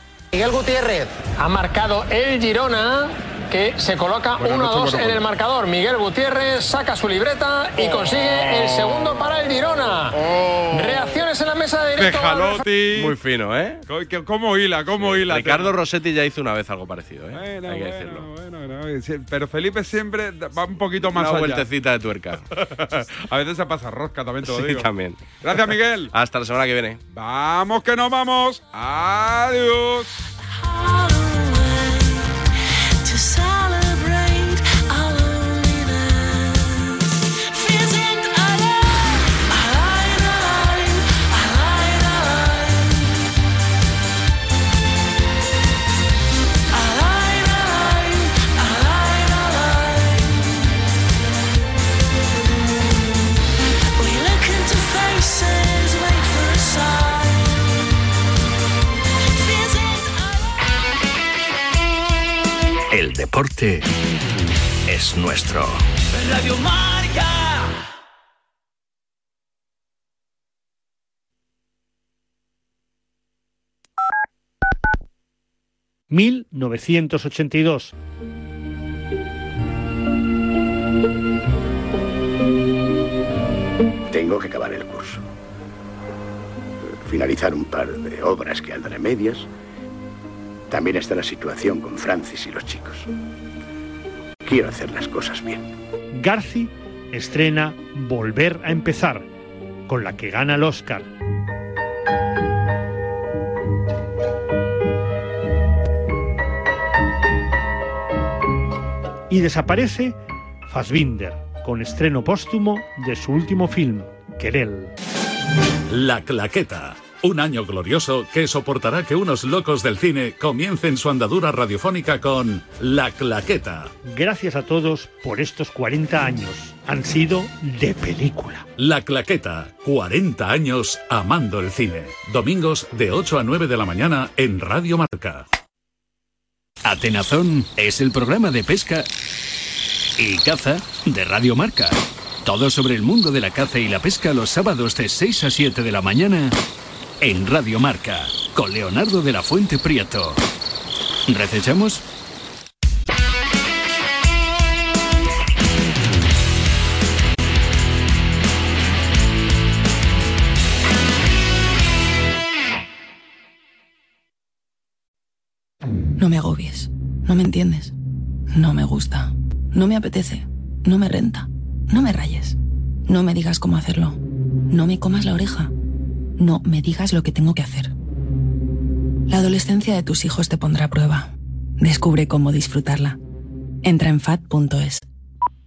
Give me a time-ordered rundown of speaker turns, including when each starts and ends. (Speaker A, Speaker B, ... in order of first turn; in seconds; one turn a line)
Speaker A: 0.4-10.1
Speaker B: 4.4-5.2
Speaker B: 10.1-10.8
Speaker A: 10.8-12.6
Speaker B: 12.0-13.1
Speaker C: 12.9-13.8
Speaker B: 13.9-15.8
Speaker C: 15.0-18.3
Speaker B: 17.3-21.6
Speaker C: 21.0-22.4
Speaker B: 22.6-24.9
Speaker C: 24.4-27.0
Speaker B: 25.4-26.1
Speaker B: 27.1-30.3
Speaker D: 62.9-63.8
Speaker D: 64.9-65.8
Speaker E: 76.1-77.9
Speaker F: 84.1-85.2
Speaker F: 87.0-89.5
Speaker F: 90.7-93.1
Speaker F: 94.4-95.7
Speaker E: 96.1-99.2
Speaker E: 99.9-101.1
Speaker E: 109.3-110.2
Speaker E: 110.7-114.9
Speaker G: 115.9-123.9
Speaker E: 124.0-128.7
Speaker G: 128.8-135.4
Speaker D: 136.8-139.1
Speaker D: 140.2-146.6
Speaker D: 147.2-150.4
Speaker D: 151.3-152.0
Speaker H: 166.2-167.9
Speaker H: 168.5-172.6
Speaker H: 173.1-174.2
Speaker H: 174.7-175.7
Speaker H: 176.4-177.9
Speaker H: 179.3-183.2
Speaker H: 183.8-185.0